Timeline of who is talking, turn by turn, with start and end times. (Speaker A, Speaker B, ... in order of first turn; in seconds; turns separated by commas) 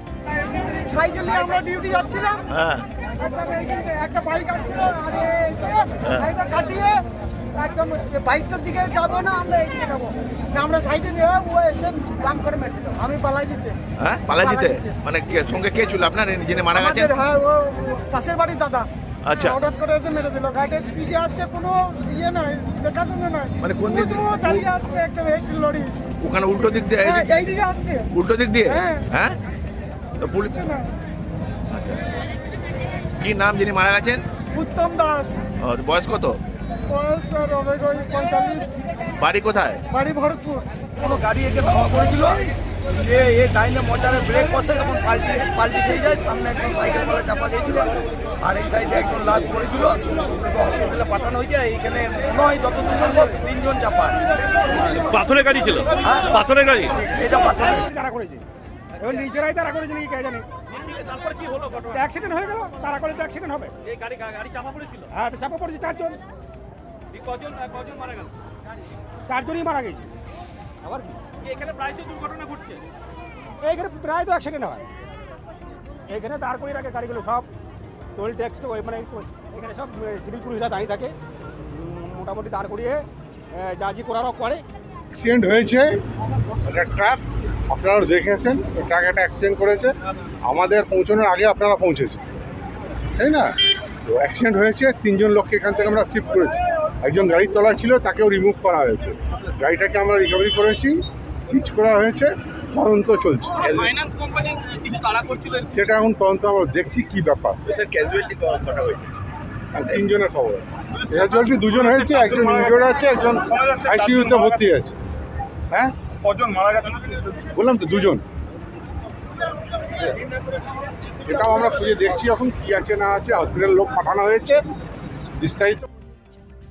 Speaker A: 0.4-2.4, Speaker B: 2.5-2.9, Speaker A: 3.1-13.8, Speaker B: 14.0-17.1, Speaker A: 14.4-14.9, Speaker A: 16.7-26.0, Speaker B: 19.2-19.6, Speaker B: 23.6-24.4, Speaker B: 26.2-27.2, Speaker A: 27.0-28.1, Speaker B: 28.1-29.4, Speaker A: 28.6-29.0, Speaker B: 30.2-30.5, Speaker A: 30.5-30.9, Speaker B: 31.7-32.1, Speaker B: 33.2-34.2, Speaker A: 34.5-35.5, Speaker B: 35.6-36.4, Speaker A: 36.9-38.7, Speaker B: 39.2-39.8, Speaker A: 39.9-40.7, Speaker C: 41.0-54.2, Speaker B: 55.0-57.0, Speaker C: 56.1-56.4, Speaker C: 57.2-57.8, Speaker D: 57.8-58.4, Speaker D: 59.0-60.4, Speaker E: 61.3-61.9, Speaker D: 61.9-63.7, Speaker E: 64.2-65.0, Speaker D: 65.1-66.2, Speaker E: 67.4-68.3, Speaker D: 69.3-70.1, Speaker D: 70.8-71.2, Speaker E: 71.8-72.7, Speaker D: 73.6-74.9, Speaker D: 76.1-77.5, Speaker D: 78.2-84.6, Speaker F: 85.1-85.9, Speaker F: 86.6-92.2, Speaker F: 93.2-93.5, Speaker F: 94.0-104.0, Speaker F: 105.2-107.8, Speaker B: 108.1-108.9, Speaker E: 108.3-108.8, Speaker F: 109.7-115.0, Speaker F: 115.7-118.2, Speaker F: 121.2-124.6, Speaker F: 125.4-125.8